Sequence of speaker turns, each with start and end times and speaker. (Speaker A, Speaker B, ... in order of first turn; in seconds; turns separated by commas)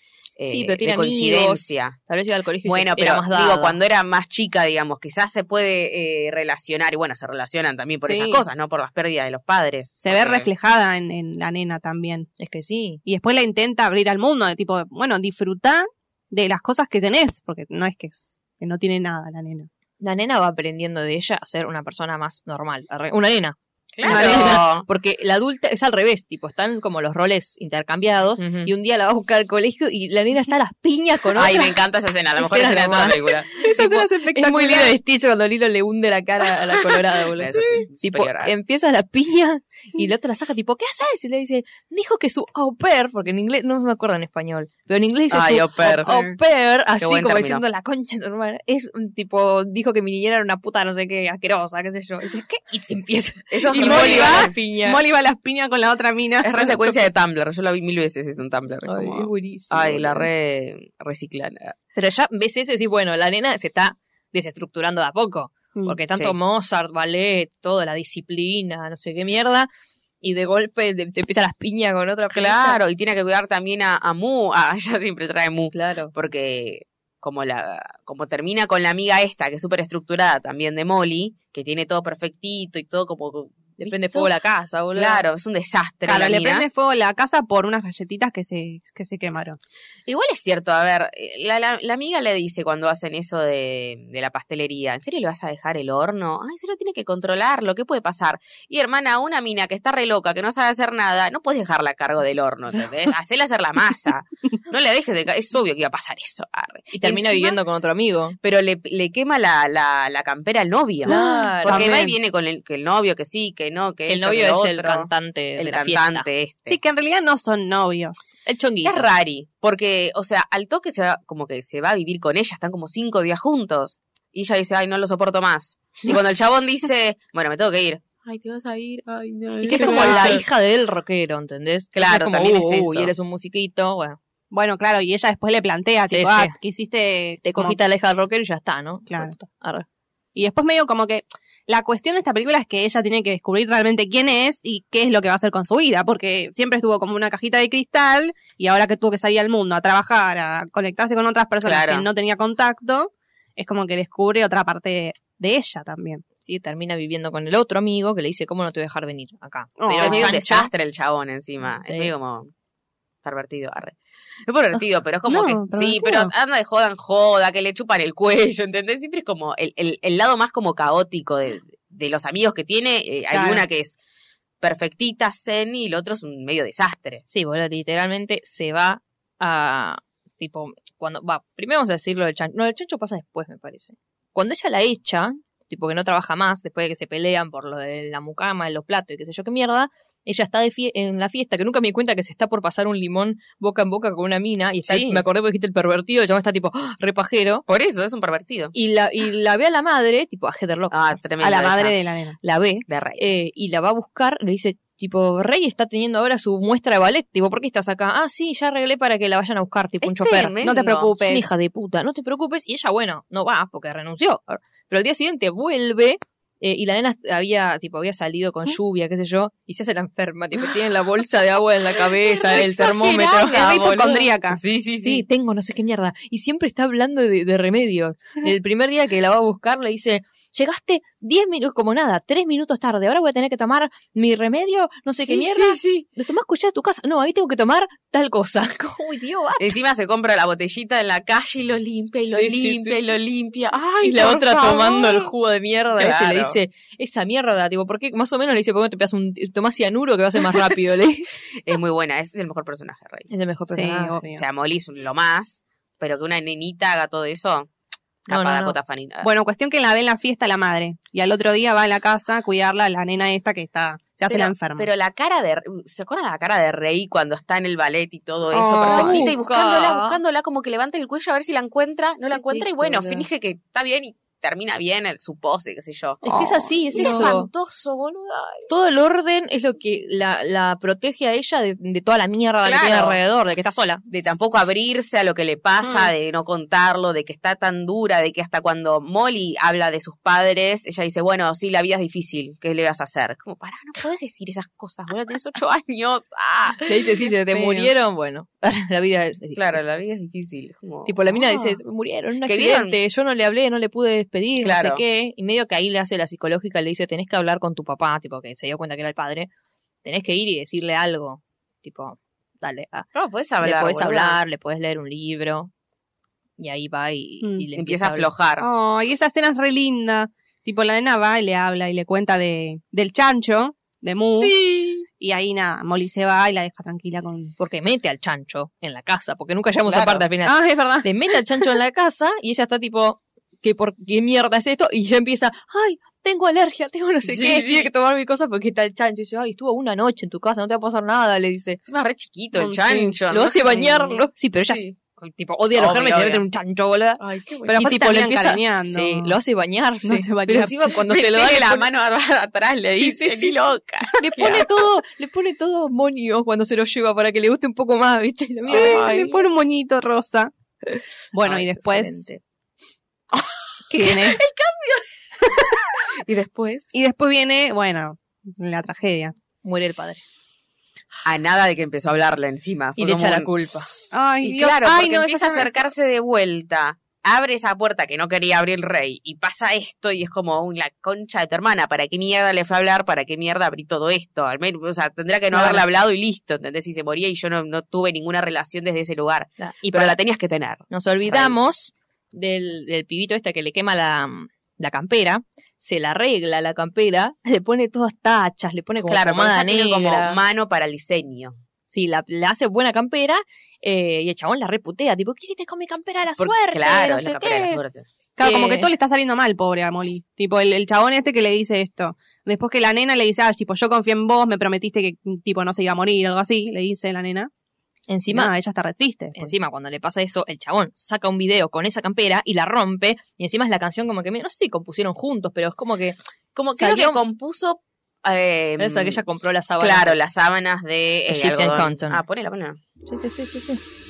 Speaker A: 0.4-2.0, Speaker B: 0.5-3.8, Speaker A: 2.6-10.5, Speaker C: 8.1-8.4, Speaker C: 10.0-12.3, Speaker B: 12.4-13.0, Speaker C: 13.1-19.7, Speaker B: 20.0-31.8, Speaker A: 23.9-24.9, Speaker C: 24.0-24.6, Speaker A: 28.4-28.7, Speaker A: 31.4-33.5, Speaker B: 32.4-55.0, Speaker C: 33.6-35.0, Speaker A: 37.3-38.5, Speaker A: 45.3-46.2, Speaker C: 46.0-46.3, Speaker A: 47.0-47.6, Speaker A: 53.5-54.5, Speaker C: 53.7-57.0, Speaker A: 56.4-61.8, Speaker B: 58.9-60.3, Speaker B: 62.0-69.7, Speaker B: 70.2-72.8, Speaker A: 72.3-84.3, Speaker B: 75.7-76.1, Speaker B: 83.8-85.2, Speaker A: 84.9-86.7, Speaker C: 86.1-89.6, Speaker A: 90.1-107.6, Speaker B: 106.9-108.4, Speaker A: 108.4-116.8, Speaker B: 111.1-112.0, Speaker C: 111.1-112.2, Speaker B: 114.1-116.3, Speaker C: 116.7-118.2, Speaker B: 118.5-119.1, Speaker A: 118.8-130.4, Speaker B: 129.6-134.2, Speaker C: 129.7-130.4, Speaker A: 131.9-133.1, Speaker C: 134.5-137.8, Speaker B: 136.1-136.5, Speaker B: 137.4-139.9, Speaker C: 139.1-139.3, Speaker C: 140.3-156.2, Speaker A: 151.6-152.1, Speaker B: 156.4-160.7, Speaker C: 159.8-160.4, Speaker A: 160.0-162.5, Speaker B: 161.8-162.1, Speaker A: 163.2-164.0, Speaker A: 164.5-174.0, Speaker C: 165.3-166.3, Speaker C: 173.3-173.7, Speaker A: 174.6-177.2, Speaker B: 177.3-197.6, Speaker A: 194.9-195.2, Speaker A: 197.7-198.7, Speaker B: 198.7-201.2, Speaker A: 200.9-202.0, Speaker C: 201.4-202.4, Speaker B: 202.4-210.7, Speaker A: 202.9-203.2, Speaker A: 210.0-211.1, Speaker C: 210.6-211.5, Speaker B: 211.2-223.8, Speaker A: 222.3-225.2, Speaker C: 223.4-224.6, Speaker B: 225.0-239.8, Speaker A: 235.2-236.1, Speaker A: 239.6-245.3, Speaker B: 242.3-243.1, Speaker B: 244.0-251.4, Speaker A: 245.9-246.6, Speaker A: 251.5-253.3, Speaker B: 253.3-254.2, Speaker C: 253.7-254.4, Speaker A: 254.3-257.7, Speaker A: 258.3-259.3, Speaker B: 258.3-258.8, Speaker C: 259.2-264.9, Speaker A: 264.3-278.7, Speaker C: 268.5-269.3, Speaker B: 268.9-270.2, Speaker B: 272.3-273.3, Speaker B: 276.2-277.5, Speaker C: 276.2-277.4, Speaker B: 278.7-284.4, Speaker A: 282.6-283.2, Speaker A: 284.1-297.9, Speaker B: 296.8-299.8, Speaker A: 299.6-301.8, Speaker B: 301.1-309.5, Speaker A: 302.4-303.0, Speaker A: 304.6-305.0, Speaker B: 310.0-313.1, Speaker A: 313.1-314.4, Speaker B: 313.6-315.7, Speaker B: 316.6-318.3, Speaker A: 317.8-318.7, Speaker C: 318.6-324.6, Speaker A: 324.4-325.1, Speaker C: 325.2-327.5, Speaker B: 327.6-341.8, Speaker A: 329.9-330.2, Speaker C: 330.4-331.1, Speaker A: 337.2-337.9, Speaker A: 341.9-345.0, Speaker C: 342.6-343.2, Speaker B: 343.3-347.2, Speaker A: 345.8-346.4, Speaker A: 347.2-348.0, Speaker C: 347.7-349.4, Speaker B: 347.7-351.9, Speaker C: 350.0-351.0, Speaker A: 351.0-354.7, Speaker B: 353.0-359.1, Speaker A: 358.6-359.4, Speaker C: 358.7-360.5, Speaker C: 361.3-362.3, Speaker B: 361.4-362.4, Speaker B: 363.9-364.4, Speaker C: 363.9-364.4, Speaker A: 364.1-366.9, Speaker C: 366.9-369.3, Speaker B: 369.6-370.2, Speaker A: 371.2-373.5, Speaker B: 373.0-373.9, Speaker C: 374.1-375.9, Speaker A: 374.4-391.6, Speaker B: 385.5-385.9, Speaker B: 389.6-390.2, Speaker B: 390.9-400.4, Speaker A: 399.1-401.6, Speaker B: 401.9-407.8, Speaker A: 406.4-408.1, Speaker C: 408.4-417.5, Speaker B: 408.4-408.9, Speaker B: 418.1-418.5, Speaker C: 418.3-419.6, Speaker B: 419.4-426.2, Speaker A: 426.6-429.2, Speaker B: 426.8-427.2, Speaker B: 428.8-430.2, Speaker A: 429.8-432.8, Speaker B: 431.3-432.2, Speaker B: 433.1-433.8